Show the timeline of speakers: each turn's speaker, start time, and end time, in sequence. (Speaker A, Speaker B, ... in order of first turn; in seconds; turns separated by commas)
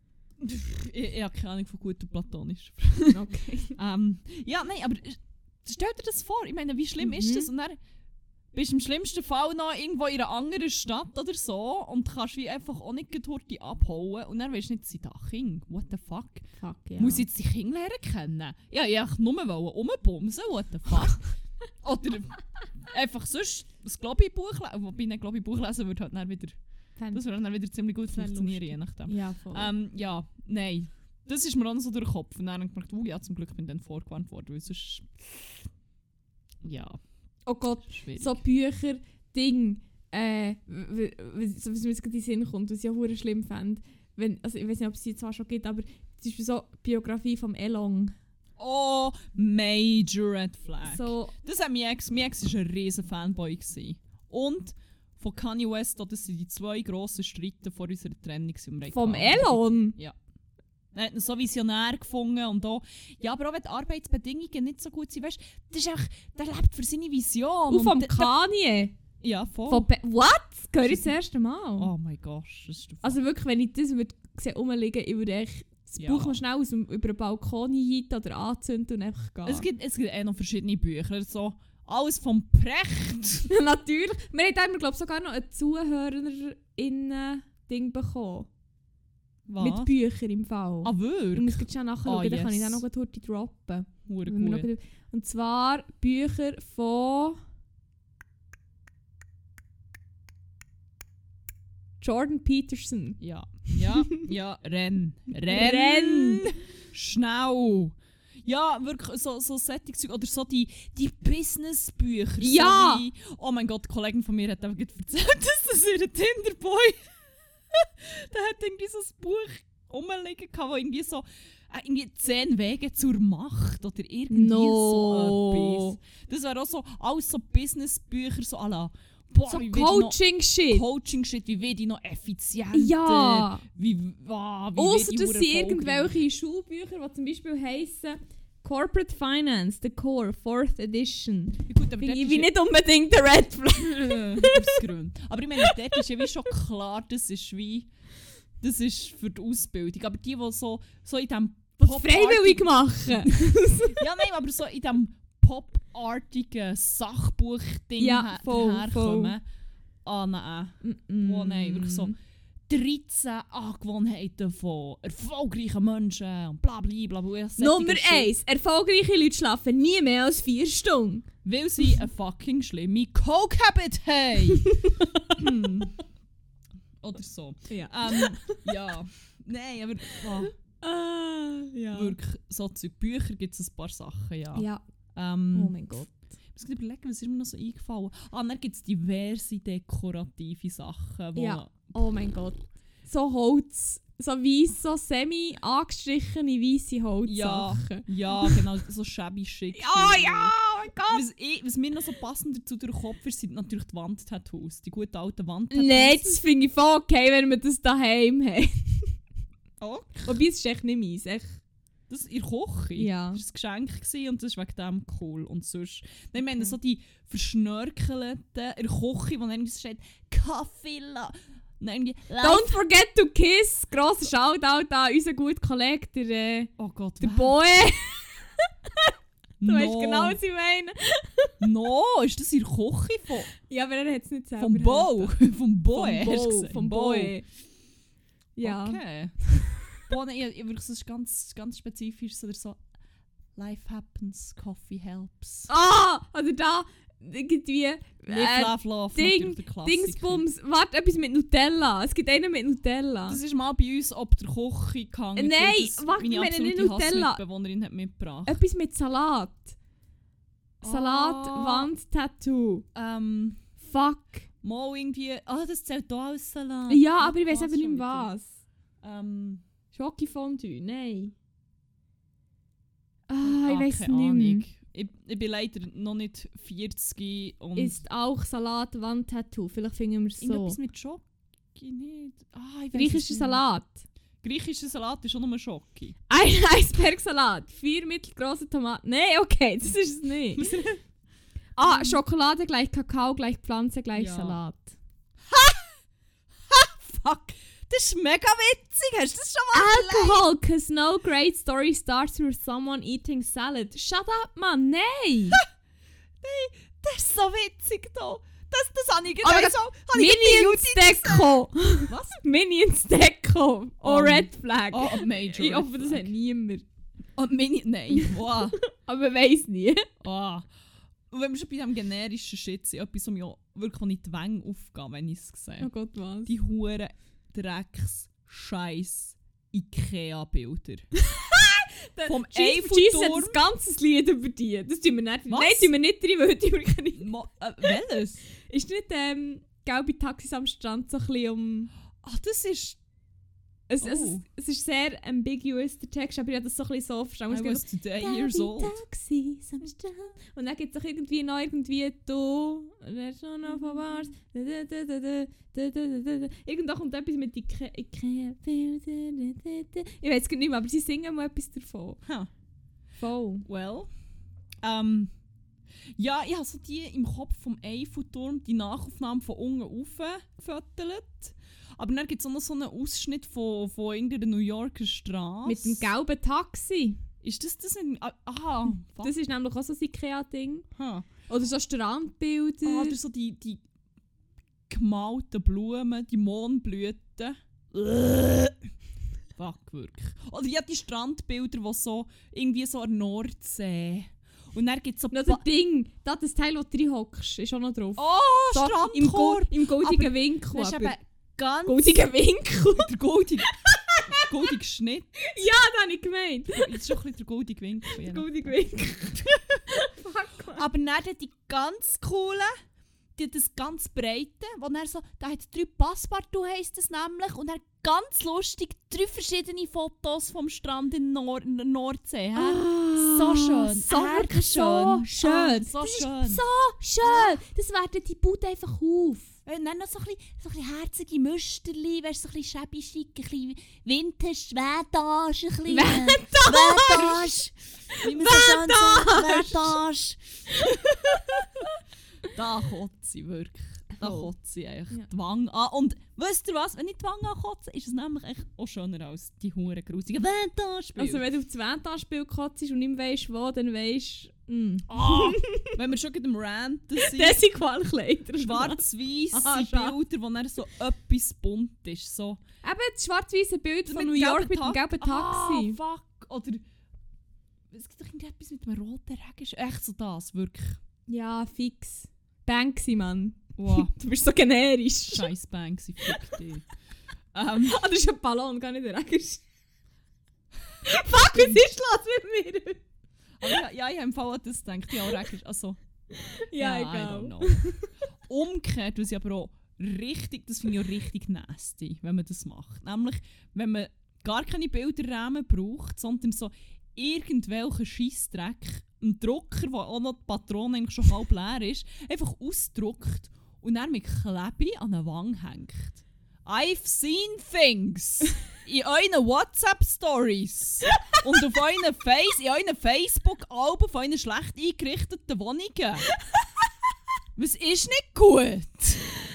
Speaker A: 0.4-3.2, Speaker B: 3.1-3.8, Speaker A: 3.8-7.8, Speaker B: 7.0-7.5, Speaker A: 8.5-35.7, Speaker B: 16.6-17.2, Speaker B: 27.0-27.2, Speaker B: 28.1-29.7, Speaker A: 36.6-37.0, Speaker B: 37.5-48.1, Speaker A: 37.8-38.4, Speaker A: 48.6-60.2, Speaker B: 50.8-51.3, Speaker B: 58.9-60.0, Speaker A: 60.9-68.3, Speaker B: 67.7-68.9, Speaker A: 69.2-69.9, Speaker B: 69.7-71.9, Speaker A: 70.8-71.1, Speaker A: 71.8-73.2, Speaker B: 73.0-79.7, Speaker A: 76.0-76.4, Speaker A: 79.4-83.5, Speaker B: 83.5-88.5, Speaker A: 89.5-89.9, Speaker B: 89.6-97.4, Speaker A: 90.8-92.8, Speaker A: 94.0-94.7, Speaker B: 102.0-104.2, Speaker A: 103.2-117.1, Speaker B: 105.5-106.5, Speaker B: 112.4-113.0, Speaker A: 117.7-136.1, Speaker B: 124.3-126.0, Speaker B: 129.5-130.8, Speaker B: 132.7-133.6, Speaker B: 134.8-144.8, Speaker A: 141.7-142.5, Speaker A: 143.8-147.9, Speaker B: 145.6-146.0, Speaker A: 148.6-159.4, Speaker B: 151.8-154.0, Speaker B: 158.0-159.3, Speaker A: 160.0-162.1, Speaker B: 160.8-162.1, Speaker A: 162.7-168.3, Speaker B: 167.6-171.3, Speaker A: 171.4-174.7, Speaker B: 174.6-175.4, Speaker A: 175.3-175.9, Speaker A: 177.0-180.5, Speaker B: 177.7-178.7, Speaker B: 180.2-182.2, Speaker A: 181.9-185.7, Speaker B: 184.5-184.8, Speaker B: 185.5-186.1, Speaker A: 186.5-191.9, Speaker B: 191.3-198.6, Speaker A: 197.2-200.5, Speaker B: 199.7-201.2, Speaker A: 201.1-206.4, Speaker B: 205.7-209.1, Speaker A: 209.8-210.4, Speaker B: 210.2-211.6, Speaker A: 212.1-222.7, Speaker B: 212.9-213.4, Speaker B: 222.4-229.1, Speaker A: 226.8-227.6, Speaker A: 229.6-230.4, Speaker B: 229.6-231.5, Speaker A: 231.6-233.5, Speaker B: 233.6-235.4, Speaker A: 234.6-237.3, Speaker B: 235.9-237.4, Speaker B: 238.6-239.8, Speaker A: 238.6-242.8, Speaker A: 243.5-245.7, Speaker B: 245.7-253.4, Speaker A: 248.3-250.4, Speaker A: 253.3-258.6, Speaker B: 255.3-257.4, Speaker B: 258.4-259.8, Speaker A: 260.8-261.9, Speaker B: 260.8-262.9, Speaker A: 262.9-263.6, Speaker B: 263.8-264.5, Speaker A: 264.6-268.3, Speaker B: 266.9-268.5, Speaker A: 269.0-269.6, Speaker B: 269.9-271.3, Speaker B: 273.3-274.7, Speaker A: 273.4-278.0, Speaker B: 277.8-280.8, Speaker A: 280.4-283.6, Speaker B: 282.9-284.0, Speaker A: 284.4-286.1, Speaker B: 286.3-290.7, Speaker A: 290.6-291.0, Speaker A: 291.8-292.2, Speaker B: 291.8-294.9, Speaker A: 294.1-294.6, Speaker A: 295.5-295.9, Speaker A: 296.7-300.4, Speaker B: 299.7-305.6, Speaker A: 306.4-311.5, Speaker B: 309.4-316.8, Speaker A: 312.1-312.4, Speaker A: 314.0-316.3, Speaker A: 317.4-318.8, Speaker B: 318.1-320.1, Speaker A: 320.2-320.7, Speaker A: 321.3-325.9, Speaker B: 325.8-326.5, Speaker A: 326.4-331.1, Speaker B: 331.2-337.3, Speaker A: 332.2-333.6, Speaker A: 335.5-335.9, Speaker A: 337.1-338.4, Speaker B: 338.5-341.9, Speaker A: 342.2-343.0, Speaker B: 343.9-362.2, Speaker A: 344.0-344.4, Speaker A: 347.5-349.0, Speaker A: 362.2-362.5, Speaker B: 363.2-363.6, Speaker A: 363.6-364.1, Speaker A: 364.8-365.3, Speaker A: 366.2-376.1, Speaker B: 375.6-377.2, Speaker A: 377.4-379.3, Speaker B: 379.2-380.9, Speaker A: 380.9-381.3, Speaker B: 381.5-383.2, Speaker A: 382.8-383.8, Speaker A: 384.9-388.8, Speaker A: 389.6-395.6, Speaker B: 395.3-401.1, Speaker A: 398.2-402.2, Speaker B: 401.9-403.1, Speaker A: 402.9-403.7, Speaker B: 403.6-404.5, Speaker A: 404.3-405.3, Speaker B: 405.4-407.0, Speaker A: 406.7-408.8, Speaker B: 408.0-410.9, Speaker A: 410.7-412.7, Speaker A: 413.4-426.6, Speaker B: 422.6-429.5, Speaker A: 427.2-427.6, Speaker A: 429.6-441.5, Speaker B: 435.9-437.5, Speaker B: 438.1-440.0, Speaker B: 440.8-441.9, Speaker A: 442.5-451.4, Speaker B: 444.2-444.5, Speaker B: 451.2-456.0, Speaker A: 455.1-457.6, Speaker B: 457.2-460.2, Speaker A: 458.6-462.6, Speaker B: 462.8-466.0, Speaker A: 464.1-466.8, Speaker A: 467.9-471.0, Speaker B: 471.3-475.5, Speaker A: 473.8-474.1, Speaker A: 475.3-476.8, Speaker B: 476.3-476.5, Speaker A: 477.5-478.0, Speaker B: 477.8-479.6, Speaker B: 481.0-483.0, Speaker A: 481.3-481.8, Speaker A: 483.6-486.0, Speaker B: 486.3-488.1, Speaker A: 486.8-487.8, Speaker A: 488.4-516.3, Speaker A: 517.5-519.2